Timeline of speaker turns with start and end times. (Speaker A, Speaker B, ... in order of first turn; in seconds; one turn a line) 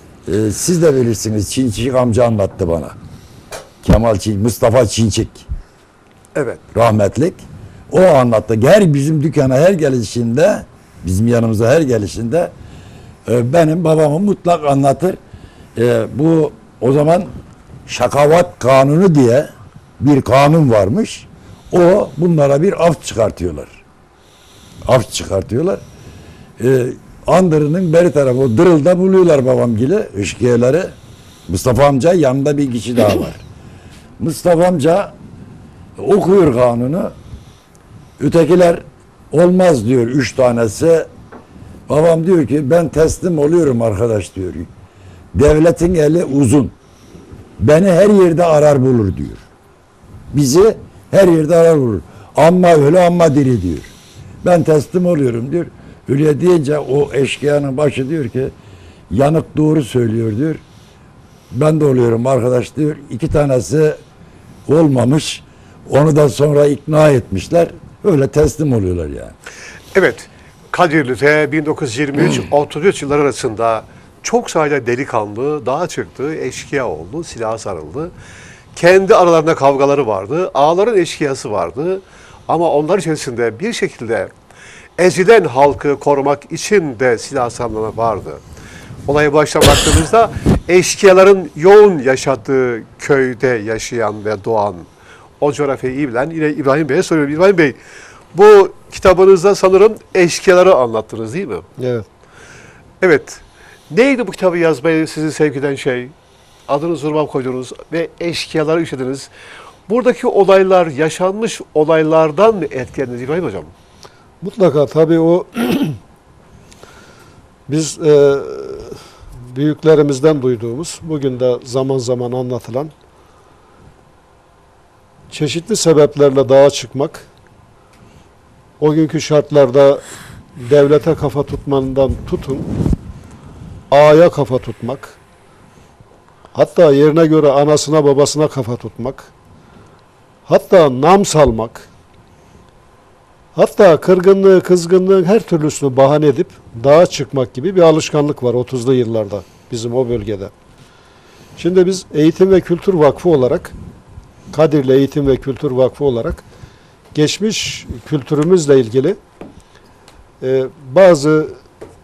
Speaker A: 0.3-3.0
Speaker A: 3.8-5.5
Speaker B: 6.3-6.6
Speaker A: 6.7-12.5
Speaker A: 13.3-15.2
Speaker A: 15.8-17.3
Speaker A: 17.9-23.8
Speaker A: 24.9-25.8
Speaker A: 26.6-30.9
Speaker A: 31.5-33.4
Speaker A: 34.2-35.1
Speaker A: 36.0-37.1
Speaker A: 38.2-41.1
Speaker A: 41.9-44.7
Speaker A: 45.3-46.8
Speaker A: 47.6-49.4
Speaker A: 50.3-53.9
Speaker A: 54.4-58.5
Speaker A: 59.1-60.6
Speaker A: 61.5-64.0
Speaker A: 64.7-69.3
Speaker B: 69.9-78.1
Speaker B: 78.8-84.3
Speaker B: 85.0-88.4
Speaker B: 89.1-94.9
Speaker B: 95.4-97.8
Speaker B: 98.3-101.7
Speaker C: 101.8-102.0
Speaker B: 103.0-106.1
Speaker B: 106.7-109.3
Speaker B: 109.9-113.7
Speaker C: 114.4-116.0
Speaker C: 117.7-119.0
Speaker C: 119.5-122.9
Speaker C: 125.3-127.3
Speaker C: 128.8-130.0
Speaker C: 130.6-132.7
Speaker C: 133.9-135.2
Speaker C: 136.6-139.3
Speaker C: 140.5-141.9
Speaker C: 143.6-150.5
Speaker C: 151.6-153.7
Speaker C: 154.5-156.4
Speaker C: 157.1-159.2
Speaker C: 160.4-161.6